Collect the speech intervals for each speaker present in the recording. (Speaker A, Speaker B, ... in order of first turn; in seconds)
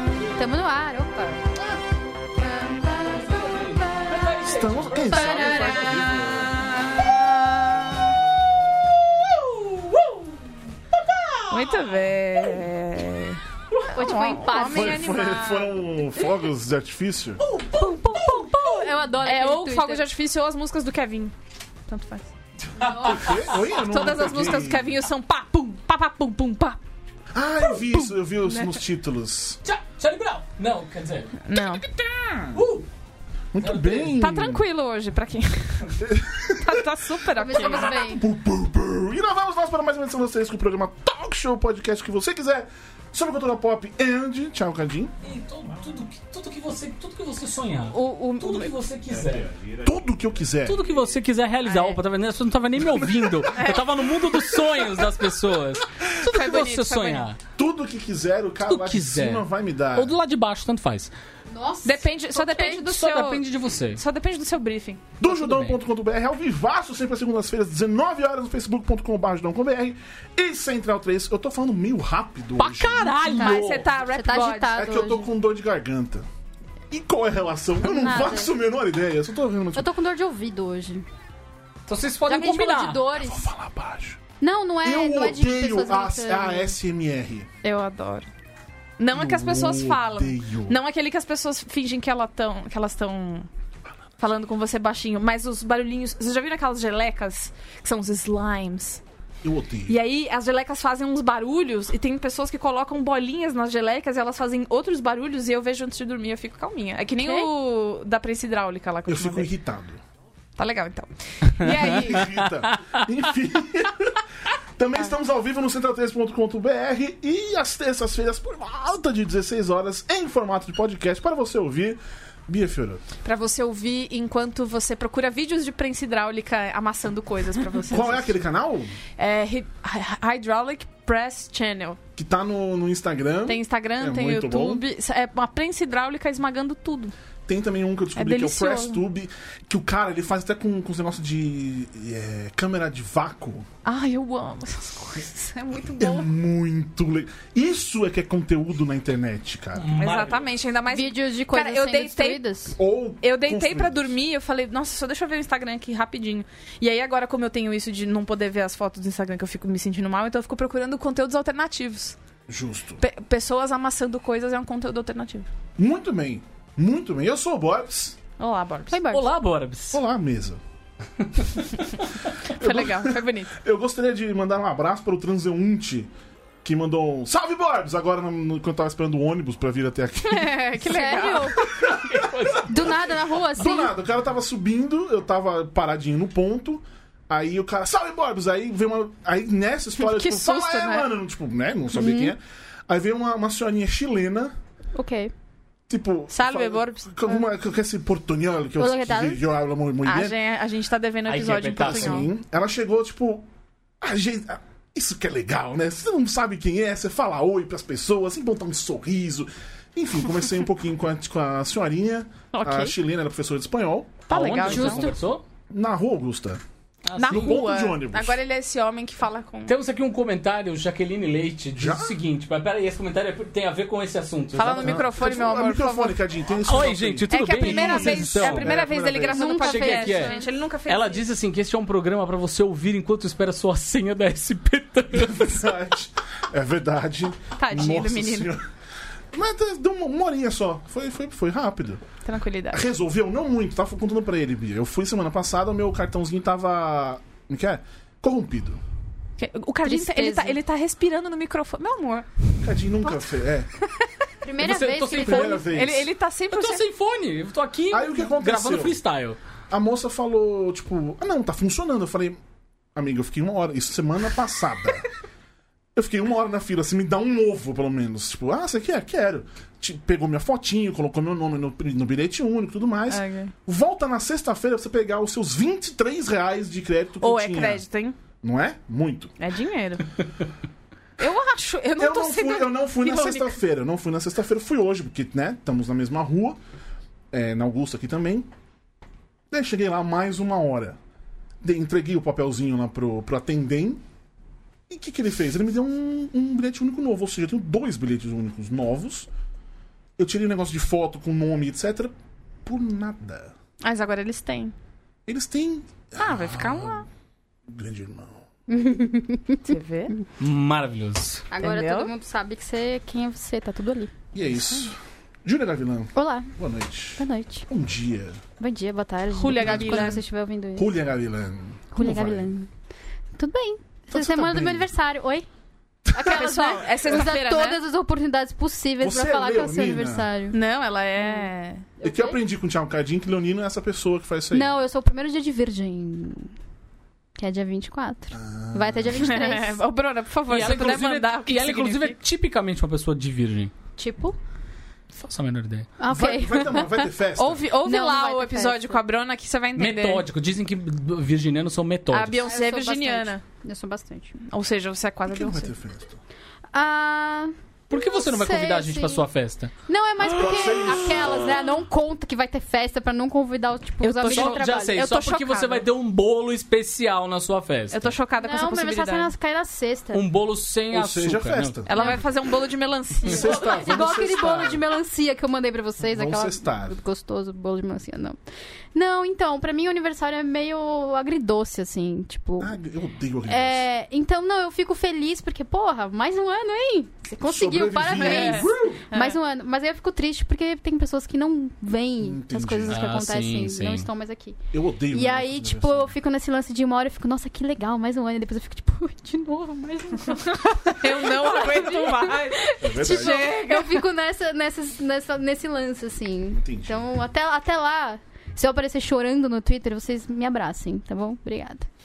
Speaker A: 0.3-1.4, 2.6-4.3, 5.0-6.0, 13.9-15.0, 18.0-20.1, 22.8-23.4, 37.4-38.2, 61.5-62.8, 73.3-75.3, 77.8-78.5, 79.8-81.0, 82.3-83.5, 84.4-86.8, 107.2-107.5, 150.9-152.8, 168.9-169.3, 180.8-181.6, 182.6-183.9, 191.9-192.3, 194.9-195.3, 198.8-199.4, 214.7-215.1, 229.3-230.4, 249.8-250.6, 254.4-255.6, 308.7-309.7, 311.5-314.1, 316.1-316.5, 317.2-317.7, 318.6-320.9, 321.9-322.7, 323.4-325.5, 326.1-330.6, 331.2-331.5, 332.0-332.4, 334.5-336.5, 337.4-339.8, 344.0-344.4, 346.0-347.1, 347.8-349.0, 352.5-354.4, 356.7-359.3, 359.9-365.0, 368.4-370.2, 371.9-372.2, 373.3-378.4, 378.9-382.8, 383.5-394.6, 395.1-411.9
Speaker B: 3.4-6.3, 9.2-10.3, 11.0-12.0, 17.5-18.5, 22.8-23.6, 29.6-31.8, 32.5-32.9, 33.6-34.2, 45.2-49.7, 50.6-57.4, 58.7-61.1, 62.7-64.0, 65.2-65.8, 72.6-73.9, 81.9-83.0, 112.7-113.0, 149.8-150.4, 169.1-170.0, 171.2-171.5, 182.1-182.7, 201.3-202.3, 214.3-215.4, 217.1-217.6, 219.7-225.1, 226.6-228.8, 229.5-230.3, 230.9-235.7, 254.6-255.6, 256.5-259.4, 310.4-311.5, 340.5-343.7, 345.1-345.9, 349.8-352.5, 357.9-359.7, 364.2-368.1, 370.1-371.8, 392.9-394.1
Speaker C: 4.5-6.7, 14.5-17.4, 22.9-24.9, 27.3-29.6, 33.5-34.6, 36.0-45.2, 49.3-50.8, 57.6-60.1, 65.2-73.3, 74.8-76.3, 76.9-79.9, 83.2-84.2, 84.8-87.5, 89.1-90.8, 99.4-100.0, 109.1-110.0, 111.7-114.2, 114.8-123.0, 127.9-129.0, 132.2-134.8, 137.5-143.7, 146.0-149.9, 152.8-154.1, 162.5-163.0, 165.8-168.2, 169.9-170.6, 172.6-176.1, 176.6-180.6, 181.7-194.6, 195.9-200.4, 201.8-203.5, 204.0-214.2, 215.7-216.6, 217.2-218.4, 221.8-222.2, 224.7-229.5, 235.2-238.6, 239.3-242.0, 242.7-248.8, 252.6-253.7, 254.6-256.1, 257.9-259.0, 259.7-262.4, 262.9-265.1, 265.9-277.8, 278.4-279.3, 282.0-286.6, 287.3-288.5, 289.5-291.0, 291.6-294.0, 294.9-299.3, 300.2-302.1, 302.6-303.5, 305.3-307.1, 307.7-308.4, 314.3-318.4, 319.6-320.2, 320.8-322.5, 324.1-324.9, 329.0-330.3, 332.0-334.7, 338.3-339.3, 346.1-347.7, 355.3-356.2, 360.2-361.8, 370.9-371.9, 373.3-374.8, 376.1-377.0, 382.6-383.9, 387.4-389.1, 392.2-393.1, 394.7-396.1, 402.8-403.5, 406.6-407.1
Speaker D: 11.5-15.8, 17.8-18.6, 19.2-21.3, 21.9-22.3, 23.6-26.8, 27.7-28.7, 31.4-31.9, 34.2-36.0, 36.6-38.0, 47.9-48.7, 51.6-52.0, 53.5-54.1, 56.2-57.3, 61.9-65.1, 73.3-74.8, 87.6-88.3, 89.0-93.5, 94.2-99.0, 99.9-109.5, 110.6-112.3, 123.2-128.3, 129.2-132.0, 133.5-137.1, 138.2-139.0, 143.8-146.3, 149.9-152.4, 153.2-162.2, 163.0-165.5, 168.4-169.0, 172.6-173.6, 180.2-181.6, 190.0-191.1, 196.3-197.3, 200.1-202.3, 212.5-213.0, 214.3-215.1, 217.2-219.7, 224.6-226.2, 227.3-231.2, 237.6-238.5, 242.2-242.8, 249.4-252.5, 255.2-256.8, 273.1-273.5, 277.2-278.2, 279.4-280.1, 281.2-283.5, 303.8-304.7, 306.2-307.1, 309.7-310.1, 311.6-312.1, 319.3-320.2, 326.2-327.8, 330.5-331.9, 339.2-342.2, 347.4-350.2, 352.1-353.4, 354.5-355.7, 364.0-365.9, 367.9-369.3, 371.9-373.6, 388.1-389.4, 400.8-404.1